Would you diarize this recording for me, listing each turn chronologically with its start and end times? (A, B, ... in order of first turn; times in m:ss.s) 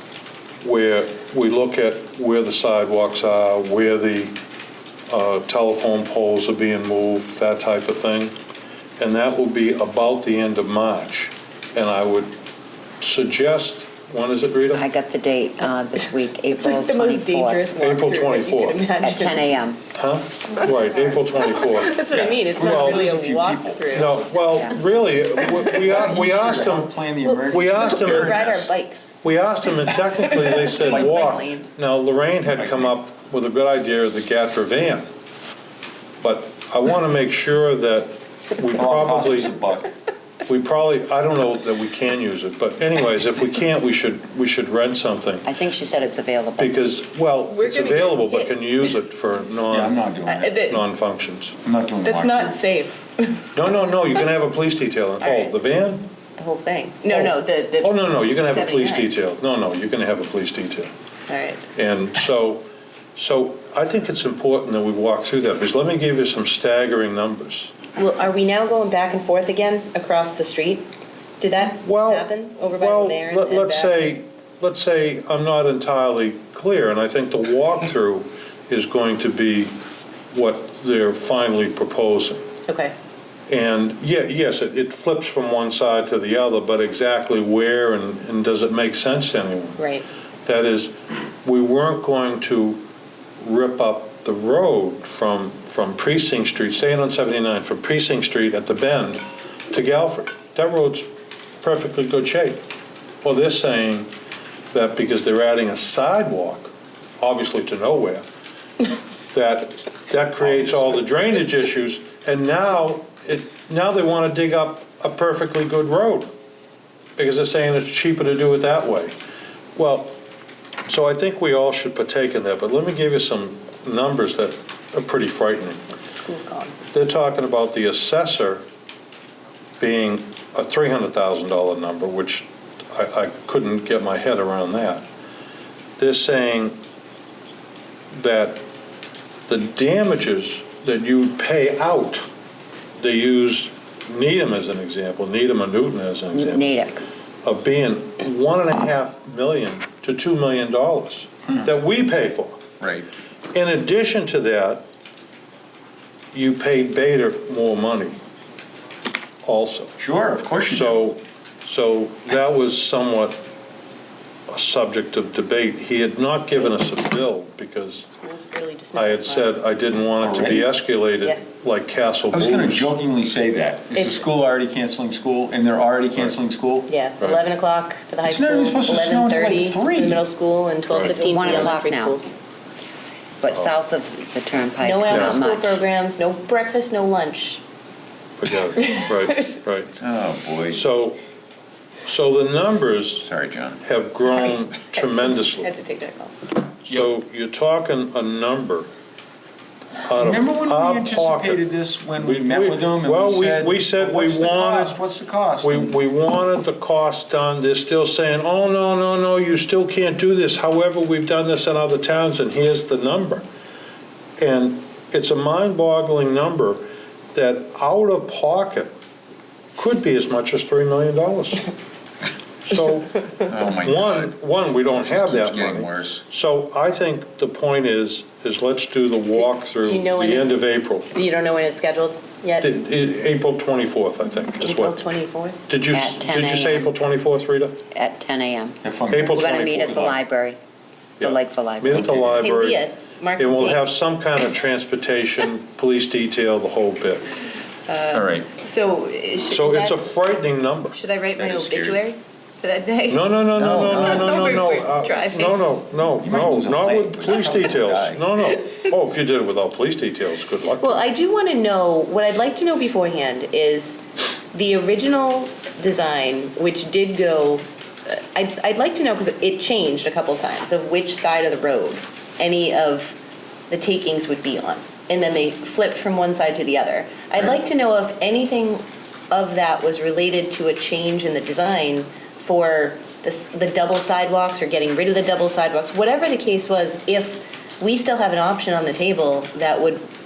0:00.6-0:04.3 A
0:05.1-0:08.3 A
0:09.0-0:12.3 A
0:13.0-0:14.8 A
0:14.7-0:17.6 B
0:16.6-0:19.5 C
0:17.8-0:18.8 A
0:19.0-0:19.8 B
0:19.9-0:22.0 A
0:20.5-0:24.2 C
0:22.1-0:24.1 D
0:22.6-0:23.0 A
0:23.9-0:26.9 A
0:25.4-0:25.7 C
0:25.6-0:28.7 D
0:27.2-0:29.1 C
0:27.5-0:28.4 A
0:29.2-0:35.1 A
0:29.9-0:31.6 C
0:30.8-0:31.4 D
0:32.6-0:32.9 D
0:36.2-0:39.5 A
0:38.7-0:39.9 D
0:40.4-0:45.5 A
0:45.4-0:46.7 B
0:46.6-0:50.0 A
0:47.5-0:48.6 C
0:49.7-0:50.6 D
0:50.2-0:50.8 C
0:50.6-0:51.6 A
0:51.6-0:52.6 D
0:52.0-0:53.5 C
0:53.5-0:56.0 A
0:55.2-0:55.5 C
0:56.4-0:59.1 C
0:57.1-1:00.9 A
1:01.3-1:01.6 C
1:01.7-1:02.6 A
1:03.2-1:07.7 A
1:08.0-1:10.8 C
1:11.4-1:14.0 C
1:11.8-1:19.7 A
1:20.3-1:22.4 A
1:22.7-1:22.9 C
1:23.5-1:29.8 A
1:29.8-1:30.0 C
1:30.4-1:32.8 A
1:33.4-1:41.1 A
1:41.6-1:42.6 A
1:43.2-1:44.1 A
1:44.7-1:48.2 A
1:49.3-1:56.3 A
1:57.2-1:59.1 A
1:59.7-2:00.1 A
2:00.9-2:05.8 A
2:06.0-2:06.8 C
2:06.9-2:08.6 A
2:09.8-2:15.0 A
2:16.0-2:16.8 A
2:18.1-2:18.6 A
2:19.5-2:22.2 A
2:23.0-2:26.6 A
2:26.3-2:27.0 B
2:27.4-2:32.6 A
2:32.8-2:33.1 D
2:33.5-2:34.8 A
2:36.3-2:38.2 A
2:39.4-2:40.0 A
2:40.0-2:41.0 D
2:40.7-2:43.4 A
2:44.5-2:48.0 A
2:48.0-2:49.6 C
2:48.9-2:52.9 A
2:50.2-2:50.7 D
2:52.3-2:56.9 D
2:53.9-2:54.2 C
2:56.9-3:02.3 C
2:58.2-3:00.2 D
3:00.9-3:01.1 A
3:01.0-3:02.2 B
3:03.4-3:05.8 B
3:04.8-3:07.6 C
3:05.1-3:05.4 A
3:08.4-3:10.0 A
3:08.8-3:09.2 C
3:10.0-3:10.8 D
3:10.7-3:11.2 A
3:12.0-3:13.3 A
3:13.2-3:13.8 D
3:13.8-3:15.7 A
3:14.3-3:16.5 C
3:16.8-3:18.9 A
3:20.0-3:25.0 A
3:20.2-3:26.0 D
3:25.6-3:33.4 A
3:34.4-3:36.8 A
3:37.3-3:38.9 A
3:39.8-3:41.7 A
3:42.6-3:51.1 A
3:43.4-3:44.4 D
3:44.9-3:46.2 D
3:49.4-3:52.7 C
3:52.6-3:55.0 A
3:54.6-3:55.6 C
3:55.7-3:57.8 A
3:55.9-3:56.9 B
3:57.9-4:00.6 B
3:58.8-4:00.2 D
3:59.1-3:59.7 A
4:01.2-4:02.1 B
4:01.2-4:02.8 A
4:02.0-4:02.4 D
4:02.4-4:03.8 C
4:03.4-4:07.3 A
4:07.9-4:10.1 C
4:08.1-4:08.5 D
4:09.5-4:11.0 A
4:10.9-4:13.3 C
4:11.4-4:12.0 D
4:13.1-4:21.1 A
4:13.5-4:14.8 D
4:13.9-4:15.6 C
4:16.2-4:18.2 D
4:20.7-4:24.0 C
4:24.5-4:33.2 C
4:33.7-4:50.0 C